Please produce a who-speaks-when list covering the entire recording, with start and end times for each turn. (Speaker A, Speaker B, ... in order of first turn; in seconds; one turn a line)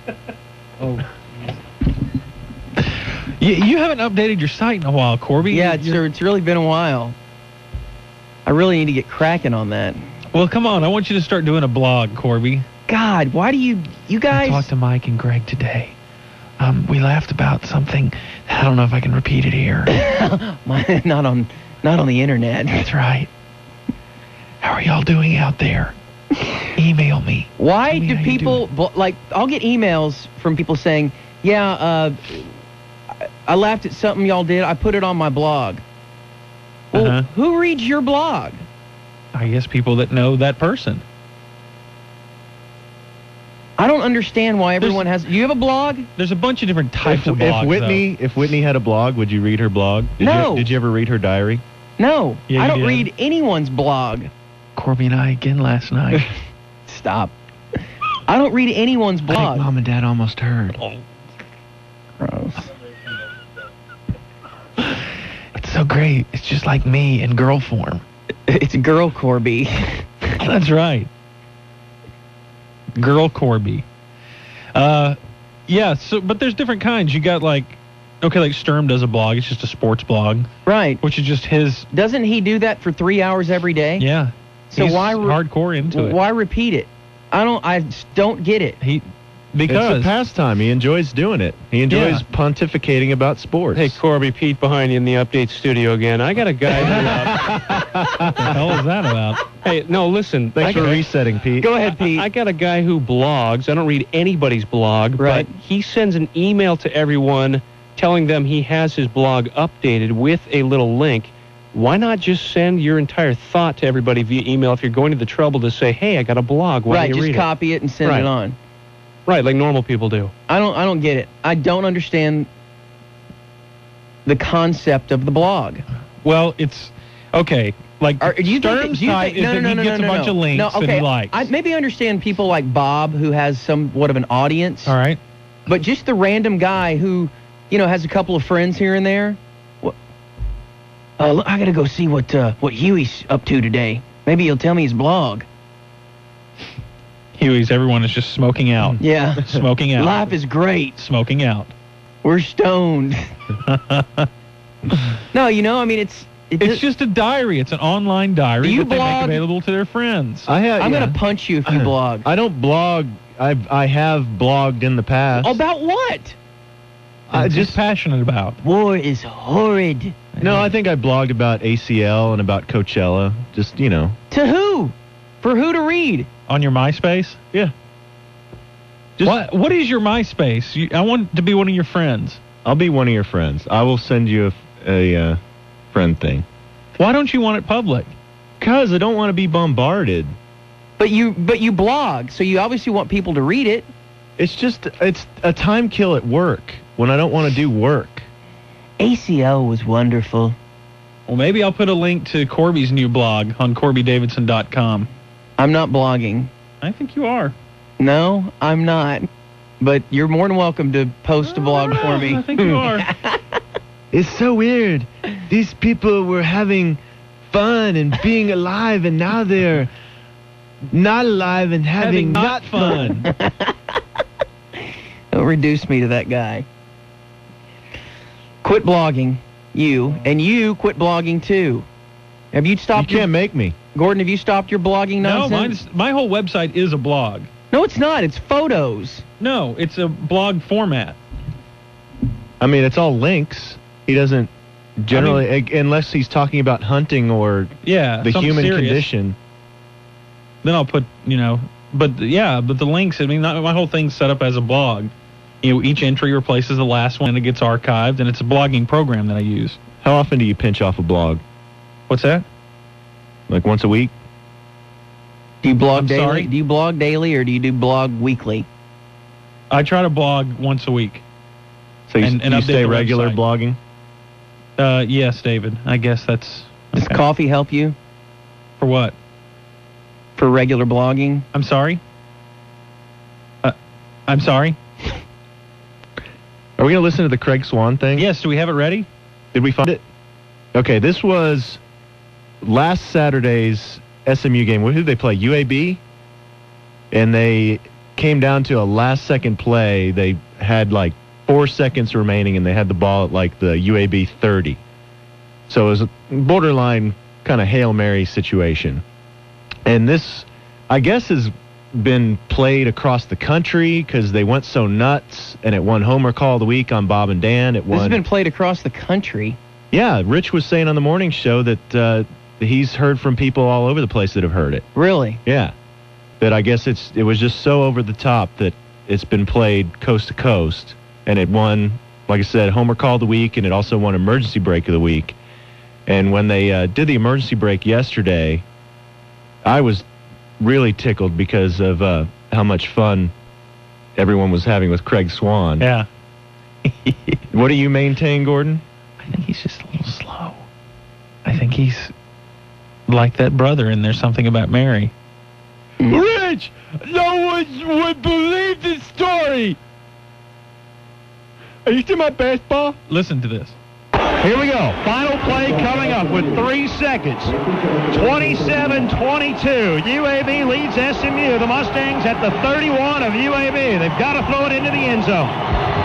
Speaker A: 0.8-1.5
Speaker A: 2.8-6.0
Speaker B: 5.5-7.1
Speaker B: 8.4-10.0
Speaker A: 10.3-12.7
Speaker B: 12.9-14.7
Speaker A: 14.3-15.9
Speaker A: 16.6-20.0
Speaker B: 19.9-22.9
Speaker A: 22.8-23.3
Speaker A: 24.6-25.9
Speaker A: 26.8-28.6
Speaker B: 27.6-32.5
Speaker B: 33.4-35.8
Speaker B: 36.9-38.6
Speaker A: 36.9-37.2
Speaker A: 39.3-41.0
Speaker B: 43.8-46.1
Speaker A: 44.8-45.1
Speaker A: 46.2-48.0
Speaker C: 47.0-51.6
Speaker B: 50.2-50.7
Speaker B: 52.0-54.3
Speaker A: 52.5-53.1
Speaker A: 54.8-56.3
Speaker B: 56.9-57.3
Speaker B: 58.3-59.7
Speaker C: 59.3-60.8
Speaker B: 62.2-62.6
Speaker A: 65.5-68.0
Speaker B: 68.5-70.0
Speaker A: 70.4-71.1
Speaker A: 73.0-73.8
Speaker A: 74.7-75.2
Speaker A: 75.7-80.5
Speaker B: 80.7-81.0
Speaker A: 81.0-81.9
Speaker B: 81.9-84.1
Speaker A: 84.0-86.2
Speaker B: 84.7-85.4
Speaker B: 85.9-88.8
Speaker A: 88.8-90.1
Speaker C: 89.7-94.0
Speaker A: 91.9-92.2
Speaker D: 93.7-97.3
Speaker A: 96.8-97.3
Speaker C: 97.1-98.5
Speaker A: 98.3-99.4
Speaker D: 99.6-101.0
Speaker C: 100.5-101.7
Speaker B: 101.6-102.3
Speaker D: 101.8-117.5
Speaker B: 105.2-105.5
Speaker B: 116.9-118.5
Speaker D: 118.0-118.3
Speaker D: 119.2-120.3
Speaker B: 120.5-122.5
Speaker B: 124.2-125.8
Speaker A: 126.2-131.5
Speaker B: 128.2-134.9
Speaker A: 134.8-135.2
Speaker B: 135.7-139.9
Speaker B: 141.2-145.4
Speaker A: 147.3-150.3
Speaker B: 149.0-150.9
Speaker A: 151.0-151.7
Speaker B: 152.2-153.3
Speaker A: 153.6-154.3
Speaker B: 155.3-156.8
Speaker A: 156.6-160.5
Speaker B: 158.6-159.4
Speaker C: 160.4-165.6
Speaker B: 160.8-162.3
Speaker B: 165.4-166.3
Speaker C: 167.3-167.8
Speaker A: 167.3-168.6
Speaker B: 168.6-170.2
Speaker A: 170.3-170.7
Speaker C: 170.4-174.2
Speaker B: 174.3-176.3
Speaker A: 176.5-177.4
Speaker A: 179.2-182.4
Speaker C: 182.6-185.4
Speaker C: 185.9-186.4
Speaker A: 187.0-188.1
Speaker C: 188.6-190.3
Speaker B: 191.0-193.9
Speaker C: 194.4-198.3
Speaker B: 199.0-200.6
Speaker A: 201.3-205.1
Speaker B: 205.6-206.5
Speaker A: 206.8-207.5
Speaker B: 208.0-209.3
Speaker B: 209.8-212.4
Speaker A: 211.4-213.1
Speaker C: 214.1-219.9
Speaker C: 220.9-223.0
Speaker A: 222.0-223.3
Speaker B: 223.0-223.7
Speaker B: 225.3-226.6
Speaker B: 228.6-231.8
Speaker B: 232.5-233.3
Speaker C: 232.9-233.7
Speaker B: 233.9-235.8
Speaker A: 235.2-237.5
Speaker B: 237.7-239.2
Speaker A: 239.4-241.2
Speaker C: 242.6-249.3
Speaker A: 245.1-245.4
Speaker A: 247.8-249.1
Speaker A: 250.6-259.8
Speaker C: 260.0-261.4
Speaker A: 262.1-262.4
Speaker C: 263.5-264.1
Speaker B: 265.6-268.6
Speaker A: 265.9-266.5
Speaker A: 269.7-271.2
Speaker C: 272.1-273.8
Speaker A: 272.2-273.4
Speaker A: 274.8-277.2
Speaker B: 276.9-277.9
Speaker A: 278.8-279.1
Speaker B: 280.4-281.4
Speaker A: 281.5-282.0
Speaker A: 284.3-284.8
Speaker C: 286.8-288.3
Speaker A: 288.1-289.1
Speaker C: 289.5-290.0
Speaker C: 290.7-291.8
Speaker C: 292.6-296.0
Speaker C: 297.1-304.8
Speaker C: 305.7-309.0
Speaker C: 309.9-318.2
Speaker B: 317.9-319.6
Speaker C: 319.9-324.9
Speaker B: 324.9-325.4
Speaker C: 325.4-325.7
Speaker C: 326.4-335.4
Speaker C: 336.1-338.6
Speaker C: 339.6-340.0
Speaker C: 340.6-343.3
Speaker C: 344.1-345.9
Speaker A: 345.8-346.1
Speaker A: 346.9-347.4
Speaker C: 347.5-348.8
Speaker A: 349.2-350.6
Speaker A: 351.4-352.1
Speaker A: 353.1-355.1
Speaker A: 356.1-359.7
Speaker C: 362.0-362.9
Speaker A: 363.1-363.8
Speaker E: 364.4-367.5
Speaker E: 368.1-375.5